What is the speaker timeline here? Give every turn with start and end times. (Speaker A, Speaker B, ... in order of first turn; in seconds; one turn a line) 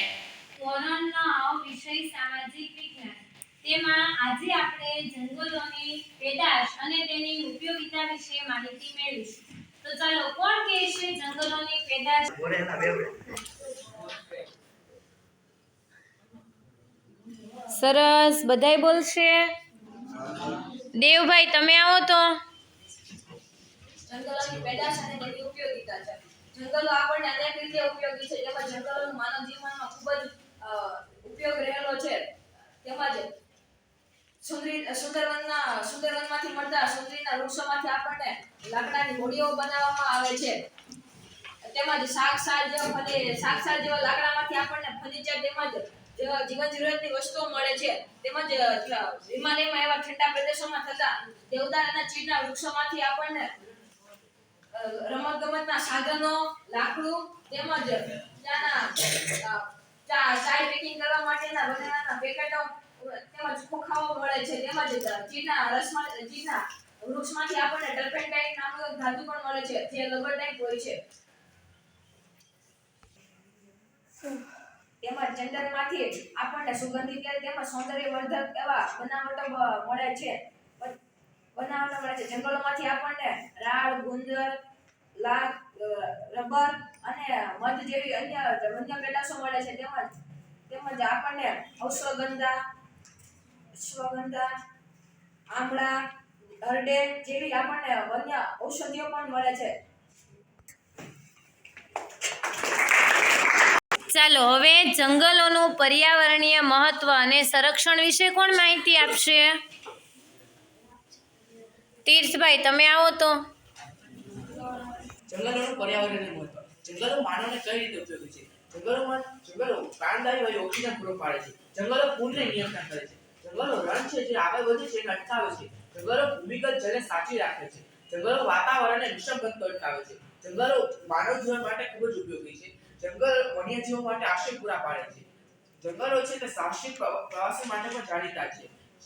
Speaker A: 0.6-12.4
Speaker B: 12.5-13.1
Speaker A: 17.7-19.5
Speaker A: 20.5-22.4
Speaker C: 24.1-32.2
Speaker C: 32.8-33.3
Speaker C: 34.4-40.7
Speaker C: 41.7-53.5
Speaker C: 54.7-71.0
Speaker C: 75.0-81.0
Speaker C: 81.6-84.5
Speaker C: 85.2-90.1
Speaker C: 90.7-92.5
Speaker C: 93.8-94.5
Speaker C: 95.5-95.9
Speaker C: 96.7-99.7
Speaker A: 104.1-109.6
Speaker A: 112.0-113.4
Speaker B: 115.3-135.3
Speaker B: 135.8-138.7